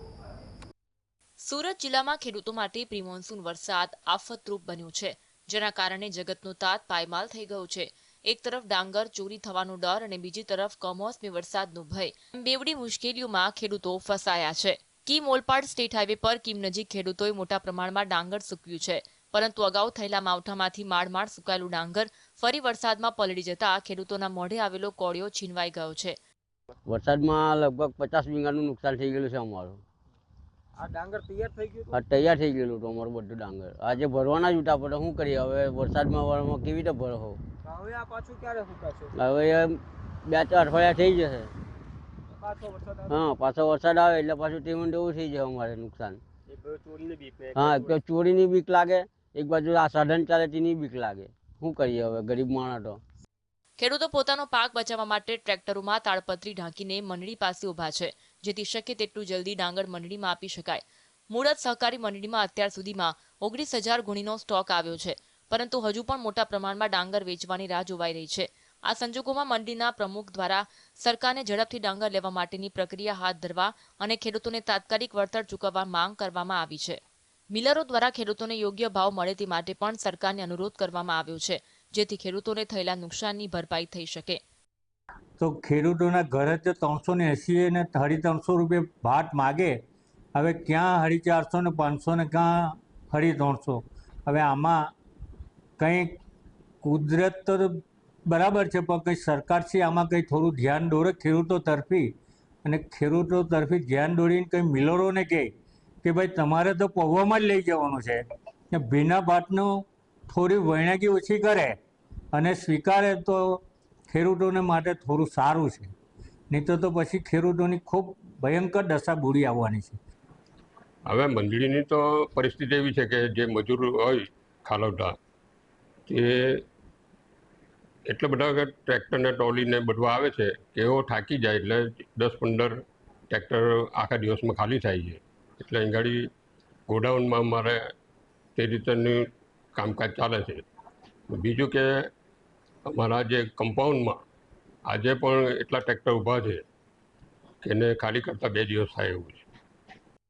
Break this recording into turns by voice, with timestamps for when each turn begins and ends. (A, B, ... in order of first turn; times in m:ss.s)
0:01.4-0:26.2 A
0:26.9-0:29.8 B
0:30.8-0:31.9 C
0:31.9-0:37.4 B
0:37.7-0:39.1 C
0:39.2-0:41.5 B
0:42.4-0:43.0 C
0:43.1-0:46.2 B
0:46.5-0:47.5 C
0:47.6-0:53.0 B
0:53.8-1:17.0 A
1:17.5-1:24.4 A
1:25.4-1:29.8 D
1:30.4-1:34.9 D
1:35.8-1:36.1 D
1:36.8-1:42.1 D
1:42.6-1:45.5 D
1:46.0-1:51.8 D
1:52.3-1:55.9 D
1:56.5-2:00.0 D
2:01.1-2:05.2 E
2:06.1-2:06.6 E
2:08.1-2:16.3 E
2:16.9-2:17.8 E
2:18.6-2:19.2 E
2:19.8-2:20.6 E
2:21.3-2:21.9 E
2:22.9-2:24.2 E
2:24.9-2:26.6 E
2:27.6-2:29.4 E